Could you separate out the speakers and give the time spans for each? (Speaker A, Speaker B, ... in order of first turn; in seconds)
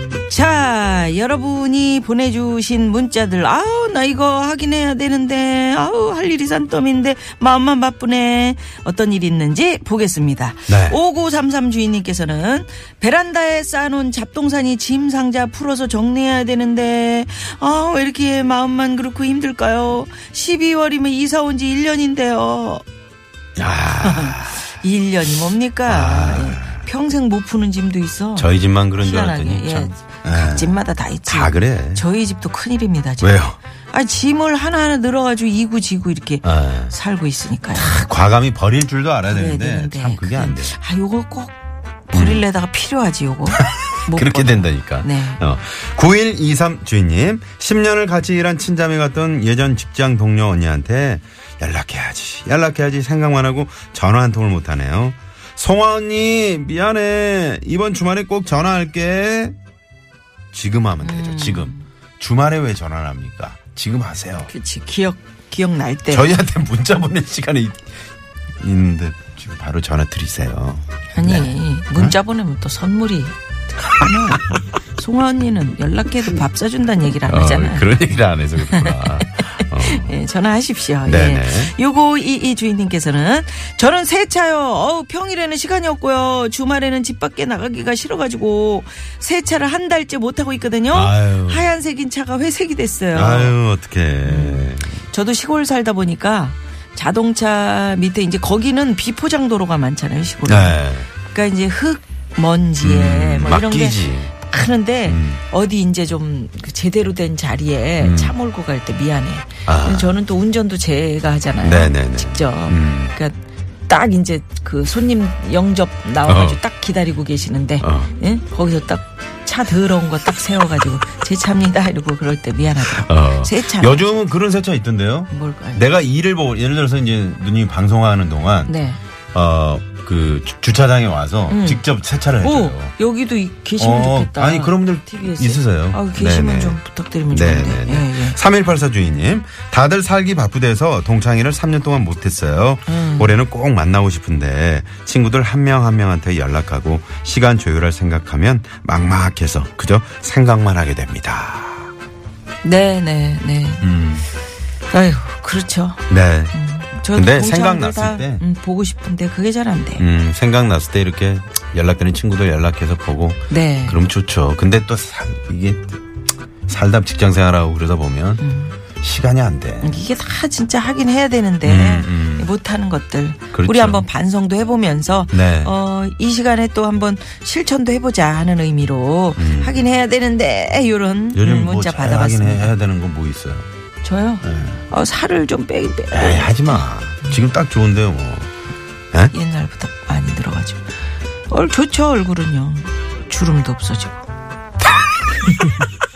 Speaker A: 0.3-22.8, 24.0-33.4, 33.9-38.0, 39.3-41.5, 42.1-45.4, 61.0-61.9, 64.5-66.3, 71.1-77.9, 78.6-93.6, 94.2-124.0, 125.3-125.9, 128.7-129.0, 131.5-131.8, 132.4-138.4, 142.9-143.4, 152.6-153.9, 154.9-156.0, 156.5-160.0, 163.5-164.0, 168.4-168.7, 169.8-182.7, 184.0-186.6, 189.3-190.8, 191.5-194.2
Speaker B: 10.7-11.0, 23.6-24.7, 25.9-26.9, 28.4-30.7, 31.2-32.0, 33.2-33.6, 36.4-36.9, 37.7-40.8, 42.1-42.4, 43.5-59.5, 60.5-64.5, 66.1-67.9, 68.6-72.2, 77.2-80.2, 81.0-81.7, 90.9-91.7, 93.1-95.0, 100.4-101.1, 102.8-104.3, 105.0-105.4, 108.0-108.3, 109.7-110.1, 111.6-113.2, 116.2-116.6, 117.8-118.1, 122.8-128.7, 129.3-132.9, 133.8-151.9, 153.8-154.3, 156.1-156.5, 157.1-158.4, 160.0-166.0, 166.7-168.4, 169.0-170.0, 171.6-172.5, 173.5-174.0, 175.3-175.7, 179.4-179.8, 181.3-183.7, 184.4-184.8, 186.1-188.5, 195.3-195.9